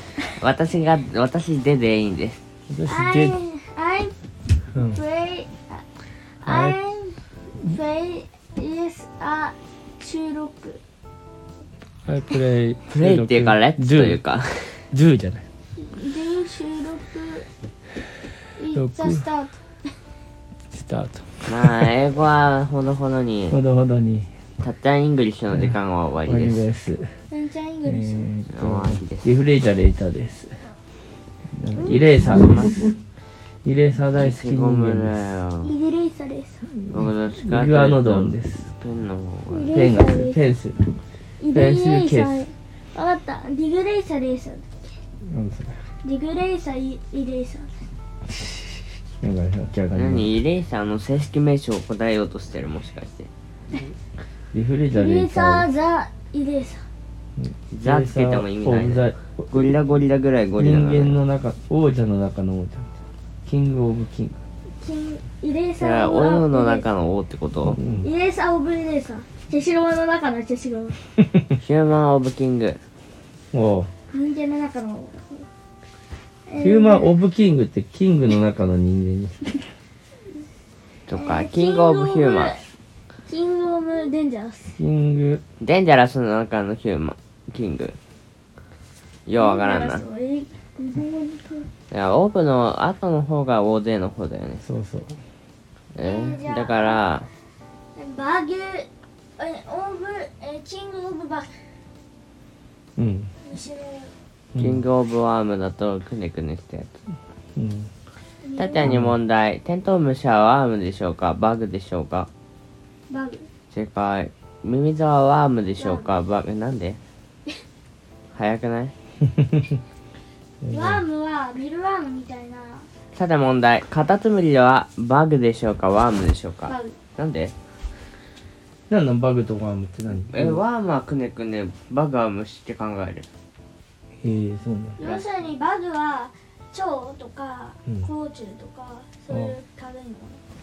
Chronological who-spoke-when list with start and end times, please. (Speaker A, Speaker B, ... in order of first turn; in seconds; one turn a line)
Speaker A: 0.4-2.4
Speaker B: 2.7-3.4
Speaker C: 2.9-4.1
Speaker B: 4.7-5.0
Speaker C: 4.8-10.8
Speaker B: 6.5-6.8
Speaker B: 12.1-14.2
Speaker A: 12.9-14.9
Speaker B: 14.9-15.5
Speaker C: 15.8-17.5
Speaker C: 18.6-19.9
Speaker B: 18.8-19.2
Speaker B: 20.7-21.9
Speaker A: 21.5-23.6
Speaker B: 23.5-24.3
Speaker A: 24.6-26.6
Speaker B: 25.5-27.2
Speaker C: 27.3-28.3
Speaker B: 27.8-30.6
Speaker A: 28.5-29.3
Speaker B: 31.5-32.6
Speaker A: 31.9-32.9
Speaker B: 33.6-35.2
Speaker A: 34.1-35.7
Speaker C: 35.6-36.6
Speaker A: 36.9-39.8
Speaker B: 37.4-38.7
Speaker C: 39.5-40.4
Speaker B: 39.7-41.0
Speaker C: 41.4-45.0
Speaker B: 41.5-42.4
Speaker B: 45.2-45.9
Speaker C: 46.0-47.9
Speaker B: 48.4-48.7
Speaker B: 49.2-50.3
Speaker A: 49.9-53.3
Speaker B: 54.5-55.7
Speaker C: 54.9-56.9
Speaker B: 57.4-59.7
Speaker A: 57.7-61.2
Speaker B: 60.6-62.9
Speaker B: 63.5-64.4
Speaker C: 64.8-66.9
Speaker A: 65.8-67.8
Speaker B: 67.6-68.1
Speaker C: 68.0-71.0
Speaker A: 71.6-72.8
Speaker B: 73.5-73.9
Speaker C: 74.1-75.5
Speaker C: 76.5-77.1
Speaker B: 76.6-79.6
Speaker A: 81.1-82.6
Speaker C: 81.1-82.6
Speaker C: 83.3-84.8
Speaker B: 84.8-85.4
Speaker A: 85.6-88.0
Speaker A: 89.3-90.1
Speaker C: 89.3-91.7
Speaker A: 91.9-94.7
Speaker B: 94.7-95.2
Speaker A: 96.0-97.3
Speaker C: 96.0-97.0
Speaker C: 98.0-101.6
Speaker B: 103.0-103.3
Speaker C: 103.4-104.1
Speaker B: 104.5-104.8
Speaker A: 104.6-107.0
Speaker B: 107.6-107.9
Speaker C: 108.4-108.9
Speaker A: 108.6-112.3
Speaker B: 108.8-109.1
Speaker C: 113.1-113.5
Speaker A: 113.7-117.0
Speaker C: 115.8-116.1
Speaker A: 118.3-118.9
Speaker B: 119.3-119.8
Speaker B: 120.6-121.0
Speaker C: 120.7-122.9
Speaker A: 123.1-127.5
Speaker C: 126.7-127.0
Speaker B: 128.9-130.6
Speaker A: 130.3-133.3
Speaker B: 134.2-135.0
Speaker C: 135.0-140.4
Speaker B: 139.3-139.6